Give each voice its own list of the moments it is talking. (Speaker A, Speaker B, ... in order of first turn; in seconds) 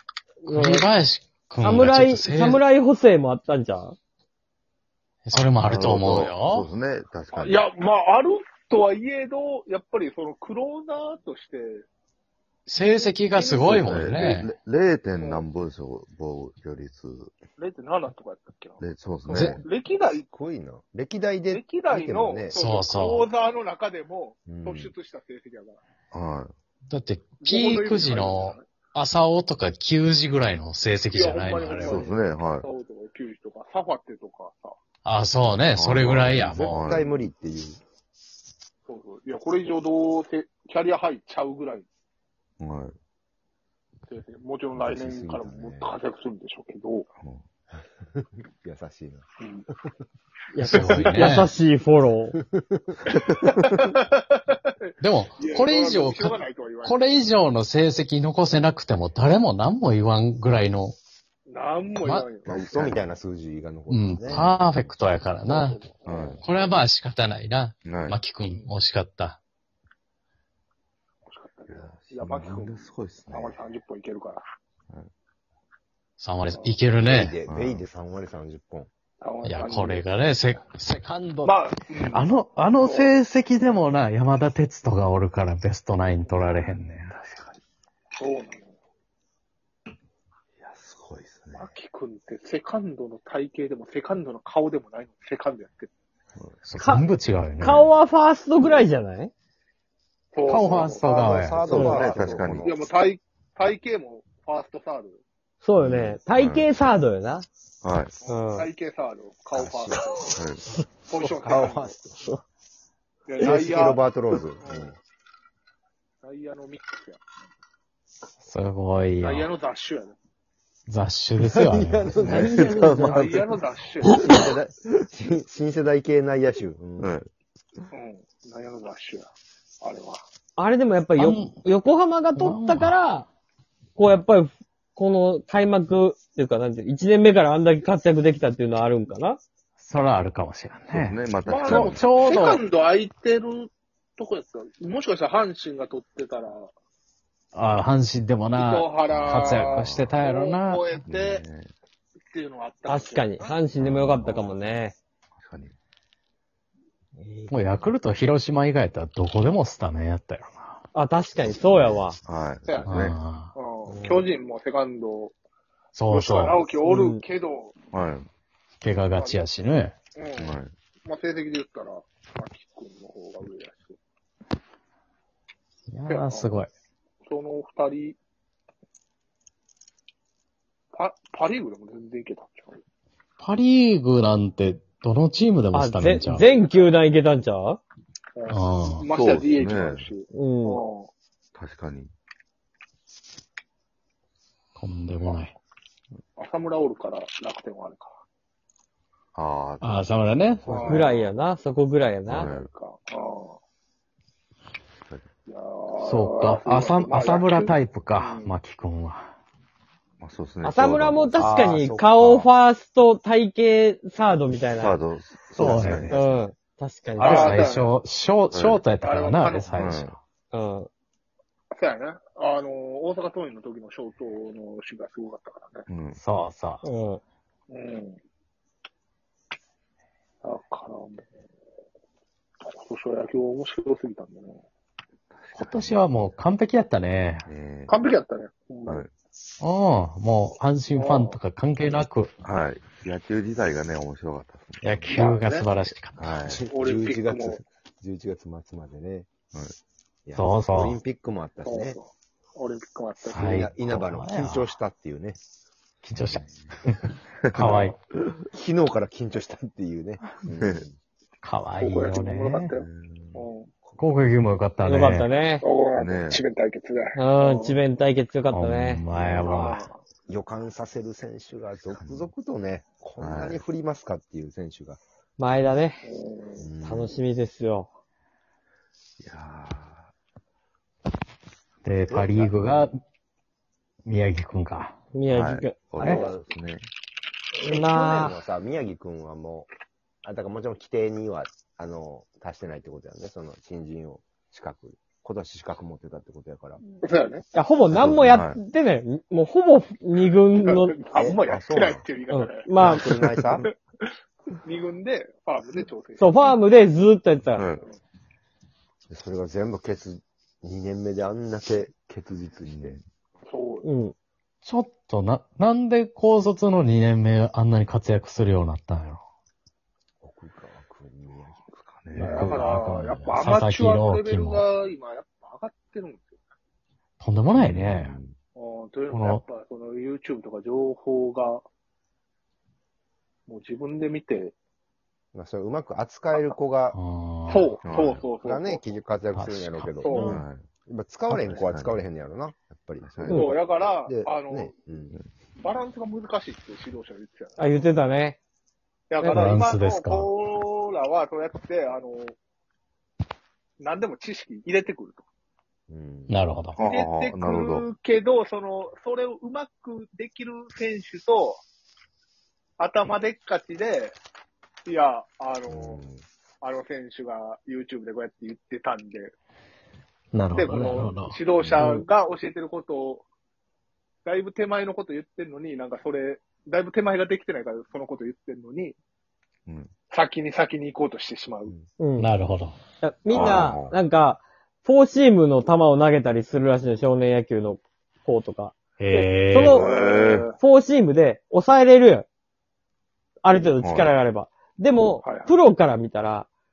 Speaker A: 0.4-0.9, 1.6-4.0, 50.5-52.3, 96.8-99.3, 101.7-102.0, 105.6-107.5, 108.3-108.7, 109.9-110.8, 122.3-123.1, 130.6-133.3, 134.0-139.4, 152.8-155.0, 157.2-157.6, 160.9-162.2, 166.8-167.2, 185.7-187.8, 190.3-190.8, 200.7-202.5, 210.6-215.0, 216.1-217.8, 220.5-220.9, 226.8-227.2, 257.6-257.9, 264.8-265.6, 267.1-269.0, 275.4-276.0, 276.8-277.9, 285.1-286.2, 287.6-288.4, 297.5-301.0, 302.3-303.1, 306.2-307.7, 313.8-314.1, 343.3-343.6, 347.6-348.4, 349.2-349.6, 371.8-372.1, 382.0-382.3, 383.0-389.9, 390.5-392.3, 393.4-396.5
Speaker B: 0.5-2.6, 5.2-6.7, 12.7-14.5, 19.3-19.6, 22.5-23.3, 26.9-32.1, 35.0-36.9, 50.6-51.5, 55.0-61.0, 62.0-62.3, 63.9-65.8, 66.4-69.4, 76.2-77.4, 79.4-87.1, 96.6-97.9, 100.5-102.0, 118.4-119.5, 120.9-122.5, 131.2-131.6, 132.3-133.0, 139.8-142.6, 147.5-151.0, 157.5-160.8, 162.8-163.5, 165.9-166.6, 168.8-170.0, 175.9-176.7, 183.4-186.5, 188.5-189.1, 194.8-195.5, 199.8-200.9, 206.0-209.3, 215.6-216.3, 217.2-220.2, 226.2-226.8, 235.5-237.5, 239.6-242.3, 244.8-246.3, 250.3-251.0, 253.2-254.7, 256.0-257.0, 257.5-258.0, 261.4-262.7, 264.0-265.3, 268.5-269.9, 281.8-283.0, 284.0-285.0, 314.6-319.2, 322.1-324.7, 327.2-328.2, 329.1-329.4, 336.9-337.7, 339.3-340.4, 349.2-350.3, 356.3-356.8, 370.3-371.4, 382.2-382.8, 389.0-389.8
Speaker C: 5.6-7.6, 13.6-17.3, 18.8-19.6, 26.1-26.5, 31.8-32.7, 35.7-37.1, 42.6-43.0, 47.2-47.4, 62.5-63.0, 64.3-65.0, 66.0-66.4, 67.8-68.2, 71.7-73.7, 77.5-77.8, 86.4-87.5, 90.6-91.7, 96.3-96.6, 97.6-97.9, 101.8-102.7, 105.8-106.7, 107.8-108.1, 110.3-110.6, 122.2-123.3, 127.0-127.3, 140.9-142.2, 149.1-150.2, 151.1-151.7, 153.8-154.6, 155.4-155.7, 161.4-163.2, 167.9-168.3, 170.4-170.7, 189.1-190.1, 191.5-192.1, 199.3-201.2, 202.2-202.7, 210.2-211.5, 214.5-216.3, 218.5-218.9, 219.7-220.2, 225.9-226.2, 235.3-236.1, 237.5-238.0, 242.4-245.1, 246.2-246.6, 249.5-249.8, 256.1-256.7, 257.4-258.3, 260.5-260.9, 262.7-263.4, 266.0-266.4, 269.1-269.7, 271.9-272.3, 273.2-273.6, 279.2-280.1, 282.1-282.7, 285.3-286.9, 297.9-298.6, 307.6-307.9, 312.6-313.0, 321.7-322.7, 327.5-328.4, 337.8-338.3, 340.2-340.7, 341.3-342.0, 343.0-343.5, 356.8-357.9, 379.6-379.9, 383.3-384.0, 389.6-390.5, 393.7-394.1
Speaker D: 7.3-11.8, 13.3-14.4, 15.2-15.4, 17.6-20.2, 21.5-25.8, 27.4-28.7, 31.1-34.8, 38.9-41.9, 44.1-47.1, 50.6-51.0, 53.1-57.0, 61.5-62.6, 65.5-66.4, 71.3-74.4, 79.2-80.0, 81.4-83.2, 88.2-88.7, 91.5-95.9, 100.3-105.2, 108.2-110.4, 111.1-112.0, 113.3-114.0, 114.6-114.9, 116.2-117.2, 119.2-120.2, 122.8-124.2, 127.9-129.3, 129.8-130.2, 141.5-146.7, 148.5-151.5, 152.3-153.6, 162.7-165.3, 166.1-167.8, 169.2-169.4, 170.2-174.0, 176.1-176.6, 177.2-178.2, 180.9-182.8, 186.4-186.9, 188.3-191.1, 196.4-198.2, 200.7-201.2, 202.3-203.6, 205.5-208.5, 217.2-217.9, 219.0-219.8, 221.7-225.9, 227.7-228.2, 230.4-231.2, 232.6-234.6, 237.9-239.0, 240.9-241.4, 245.1-245.7, 246.7-247.6, 251.7-253.6, 261.8-263.7, 265.6-267.8, 269.4-270.0, 276.0-276.7, 297.0-297.4, 300.5-303.1, 303.6-304.1, 304.6-306.6, 313.5-313.9, 322.2-326.4, 328.6-331.6, 333.5-334.5, 337.5-338.8, 340.0-340.4, 343.3-344.7, 345.6-347.8, 349.1-352.4, 353.8-355.2, 356.8-361.6, 362.8-364.1, 364.9-366.0, 366.6-369.3, 370.5-373.2, 374.2-379.0, 380.1-381.7, 389.7-390.6, 395.2-395.6
Speaker E: 20.2-22.6, 24.4-24.9, 36.3-37.8, 44.7-46.0, 48.1-49.2, 51.0-51.3, 52.4-53.0, 62.5-64.5, 77.0-78.9, 101.0-102.8, 109.5-110.1, 111.2-112.1, 113.4-115.0, 121.4-123.3, 124.0-127.1, 163.9-164.2, 211.3-212.5, 246.4-249.3, 250.2-252.0, 253.4-255.4, 258.5-261.0, 270.3-275.0, 276.6-277.2, 286.0-286.5, 287.6-289.7, 290.2-296.8, 301.1-302.0, 302.8-303.7, 309.1-313.0, 320.2-321.7, 335.3-337.0, 338.3-340.3, 340.9-345.1, 355.9-356.4, 365.7-366.2